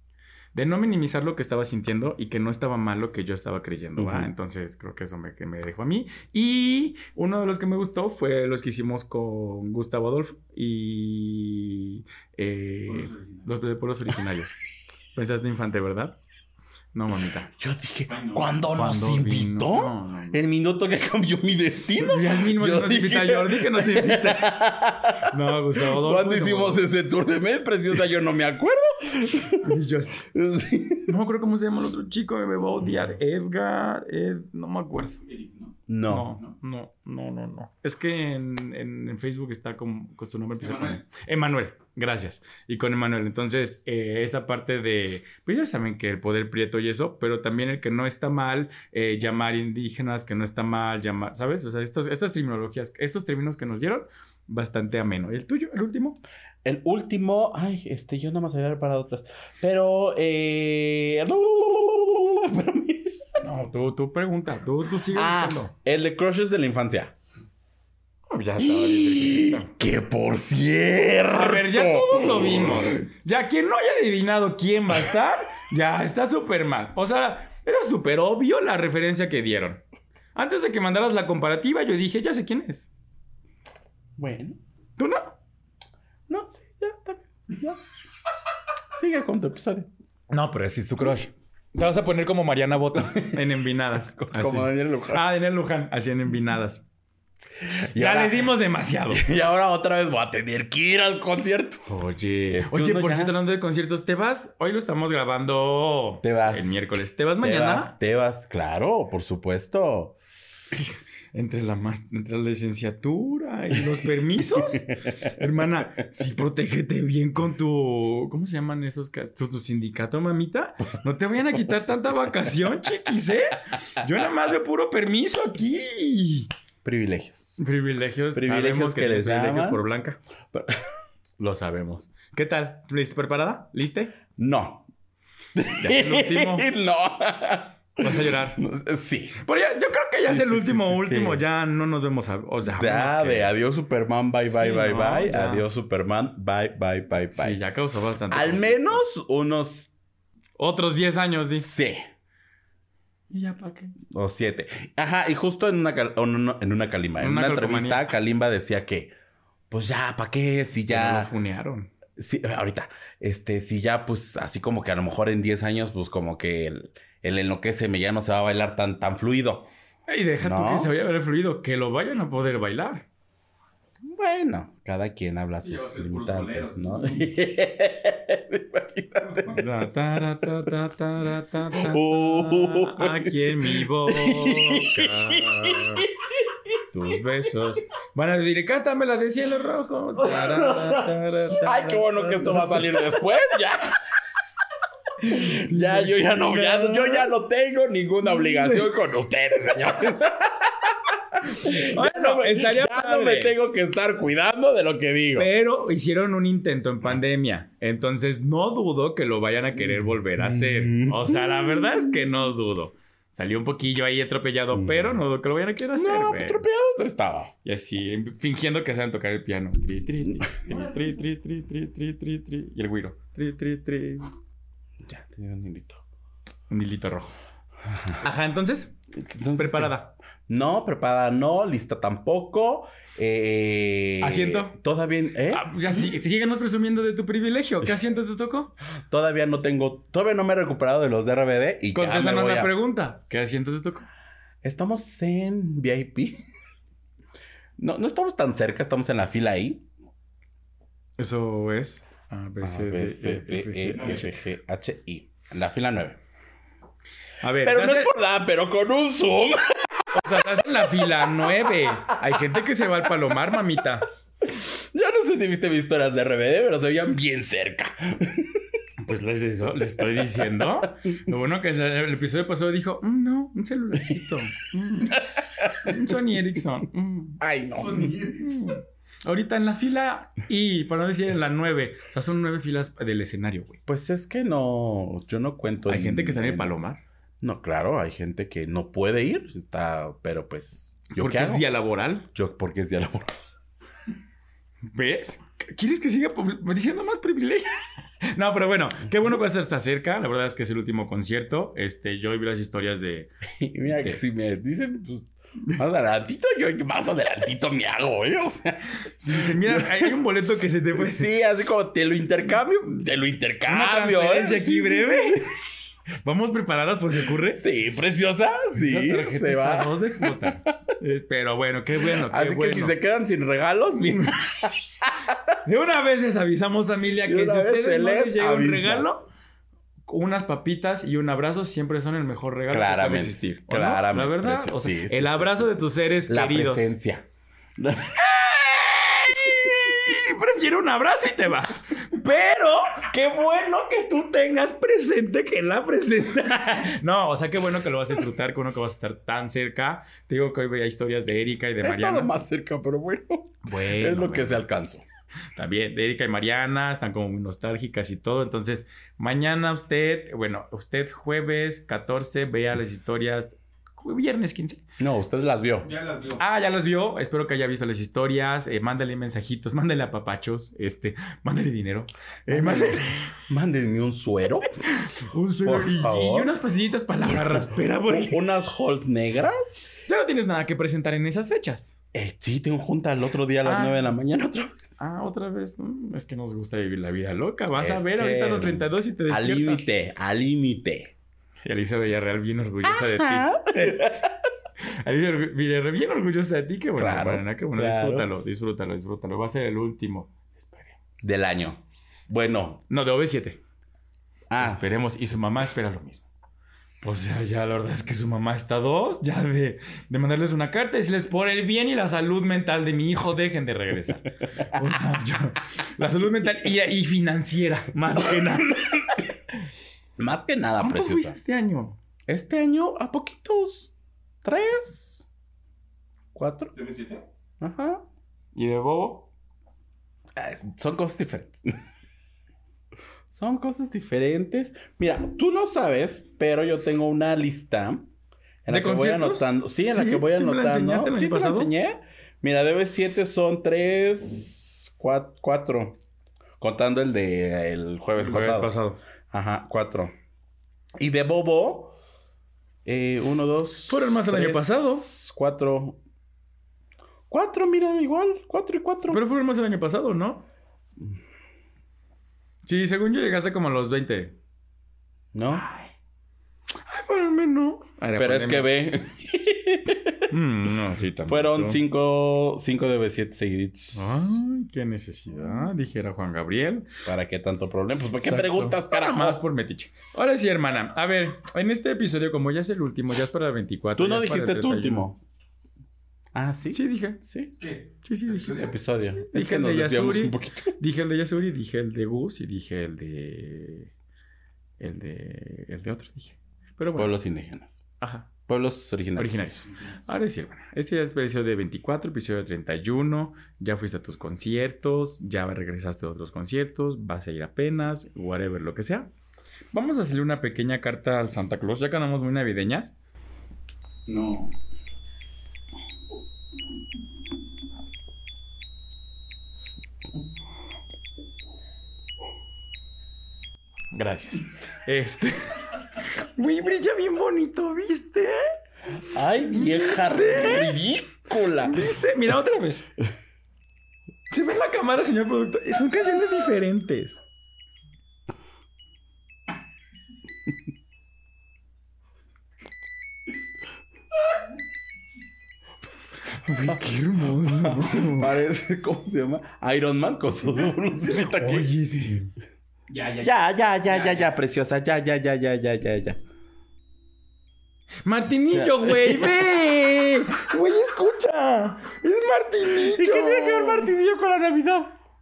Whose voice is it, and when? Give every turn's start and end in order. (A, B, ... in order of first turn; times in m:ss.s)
0:00.5-0:14.6 A
0:04.0-0:04.3 B
0:12.9-0:13.4 C
0:15.2-0:16.2 A
0:16.9-0:17.5 A
0:17.6-0:29.7 B
0:18.1-0:18.6 C
0:18.7-0:20.4 A
0:22.0-0:24.6 A
0:25.2-0:26.9 A
0:29.6-0:30.3 A
0:30.3-0:31.1 B
0:31.1-0:35.2 A
0:35.3-0:35.8 C
0:35.9-0:36.3 B
0:36.1-0:56.2 A
0:40.6-0:41.0 C
0:56.6-1:03.3 B
1:03.4-1:05.7 A
1:05.1-1:07.1 B
1:08.3-1:09.7 A
1:08.6-1:13.0 B
1:11.3-1:19.8 A
1:20.4-1:22.9 A
1:24.2-1:24.6 B
1:25.0-1:25.3 A
1:26.3-1:27.8 B
1:28.9-1:29.9 B
1:30.3-1:36.8 A
1:34.2-1:35.2 B
1:37.7-1:38.5 B
1:38.0-1:39.2 A
1:39.1-1:41.9 B
1:41.9-1:47.9 A
1:42.5-1:43.4 B
1:46.2-1:50.2 B
1:50.8-2:06.5 A
1:54.6-1:55.3 B
2:06.8-2:07.6 B
2:07.6-2:10.2 A
2:08.3-2:09.8 B
2:11.4-2:14.2 A
2:14.4-2:14.9 B
2:15.6-2:19.4 B
2:15.8-2:16.7 A
2:18.0-2:18.6 A
2:19.4-2:23.5 A
2:20.2-2:21.4 B
2:22.6-2:27.6 B
2:24.5-2:25.7 A
2:27.3-2:29.0 A
2:28.3-2:29.9 B
2:30.6-2:31.7 A
2:31.6-2:32.1 B
2:33.3-2:34.0 A
2:34.1-2:39.1 B
2:37.2-2:38.1 A
2:39.7-2:41.3 B
2:40.9-2:41.9 A
2:42.2-2:49.7 B
2:50.1-2:53.0 A
2:50.4-2:50.9 B
2:54.0-2:59.7 B
2:55.6-2:57.3 C
2:59.5-3:06.1 A
3:01.7-3:06.8 B
3:06.9-3:13.2 A
3:10.4-3:14.0 B
3:15.2-3:25.5 B
3:15.2-3:17.4 A
3:18.2-3:18.8 A
3:21.4-3:23.6 A
3:25.4-3:36.7 A
3:30.4-3:32.2 B
3:34.7-3:35.2 B
3:36.0-3:37.5 B
3:37.6-3:44.3 A
3:45.0-3:46.0 B
3:46.7-3:47.4 A
3:47.9-3:48.2 B
3:48.2-3:48.9 A
3:49.2-3:49.9 B
3:49.6-3:50.2 A
3:50.5-3:55.6 B
3:54.2-3:54.8 A
3:55.5-3:58.7 A
3:59.1-4:02.7 B
4:01.9-4:04.1 A
4:04.6-4:06.4 B
4:07.8-4:09.9 B
4:11.2-4:14.3 A
4:12.6-4:16.2 B
4:13.9-4:14.3 C
4:17.4-4:18.1 A
4:17.6-4:22.4 B
4:20.1-4:24.1 A
4:24.4-4:28.7 B
4:29.0-4:37.4 A
4:35.6-4:36.0 B
4:37.4-4:38.2 B
4:37.7-4:38.7 C
4:38.4-4:43.8 A
4:43.9-4:46.8 B
4:45.9-4:47.0 A
4:47.4-4:51.7 B
4:51.1-4:52.3 A
4:52.3-4:53.3 B
4:54.9-4:57.7 A
4:58.3-5:03.3 A
5:03.6-5:10.1 B
5:03.9-5:04.2 A
5:09.1-5:11.3 A
5:10.9-5:15.5 B
5:13.7-5:15.5 A
5:16.2-5:17.6 A
5:17.6-5:20.5 B
5:18.7-5:23.0 A
5:22.0-5:25.5 B
5:25.6-5:29.3 A
5:27.2-5:29.1 B
5:30.1-5:37.0 A
5:32.7-5:40.0 B
5:38.3-5:52.4 A
5:51.8-5:55.0 B
5:53.6-5:54.6 A
5:55.6-6:04.8 A
6:05.0-6:05.9 B
6:05.8-6:06.4 C
6:06.4-6:13.3 A
6:12.5-6:14.7 B
6:14.9-6:18.4 A
6:15.6-6:16.5 B
6:17.3-6:19.9 B
6:20.1-6:22.0 A
6:22.1-6:25.0 B
6:23.6-6:24.1 A
6:25.0-6:29.8 A
6:27.8-6:31.1 B
6:31.6-6:34.2 A
6:32.8-6:34.3 B
6:34.8-6:41.0 A
6:37.0-6:38.3 B
6:41.2-6:42.8 B
6:42.9-6:43.6 A
6:44.5-6:45.3 B
6:44.6-6:46.3 A
6:47.0-6:59.2 A
7:00.2-7:01.4 B
7:00.8-7:02.0 A
7:02.3-7:03.9 B
7:04.4-7:05.3 B
7:06.4-7:06.7 B
7:06.8-7:07.2 C
7:07.6-7:08.0 B
7:08.6-7:09.3 A
7:10.4-7:11.7 B
7:13.3-7:18.1 B
7:18.6-7:26.0 B
7:18.7-7:21.7 A
7:26.6-7:28.7 B
7:28.2-7:29.0 A
7:29.3-7:30.1 B
7:31.0-7:32.0 B
7:32.8-7:36.0 B
7:33.9-7:35.1 A
7:37.3-7:39.2 B
7:39.1-7:40.4 A
7:42.6-7:44.4 A
7:45.3-7:45.7 B
7:46.9-7:48.7 A
7:48.2-7:50.3 B
7:50.3-7:51.8 A
7:51.3-7:54.1 B
7:53.9-7:56.9 A
7:57.1-7:59.4 B
7:58.2-8:05.1 A
8:04.0-8:05.2 B
8:06.3-8:07.5 B
8:06.7-8:07.2 A
8:07.6-8:08.7 C
8:08.0-8:13.9 A
8:08.5-8:10.8 B
8:14.8-8:17.2 A
8:17.0-8:17.8 B
8:18.0-8:18.3 A
8:18.5-8:19.4 B
8:19.2-8:29.1 A
8:29.7-8:33.0 A
8:34.1-8:34.5 C
8:43.9-8:48.5 A
8:49.0-8:51.9 B
8:49.5-8:52.9 A
8:54.3-8:57.2 A
9:06.3-9:08.4 A
9:06.5-9:06.8 B
9:07.4-9:11.8 B
9:11.0-9:12.3 A
9:12.9-9:13.3 C
9:13.2-9:16.2 B
9:13.8-9:14.3 C
9:18.0-9:23.9 A
9:18.5-9:19.6 B
9:22.7-9:24.9 B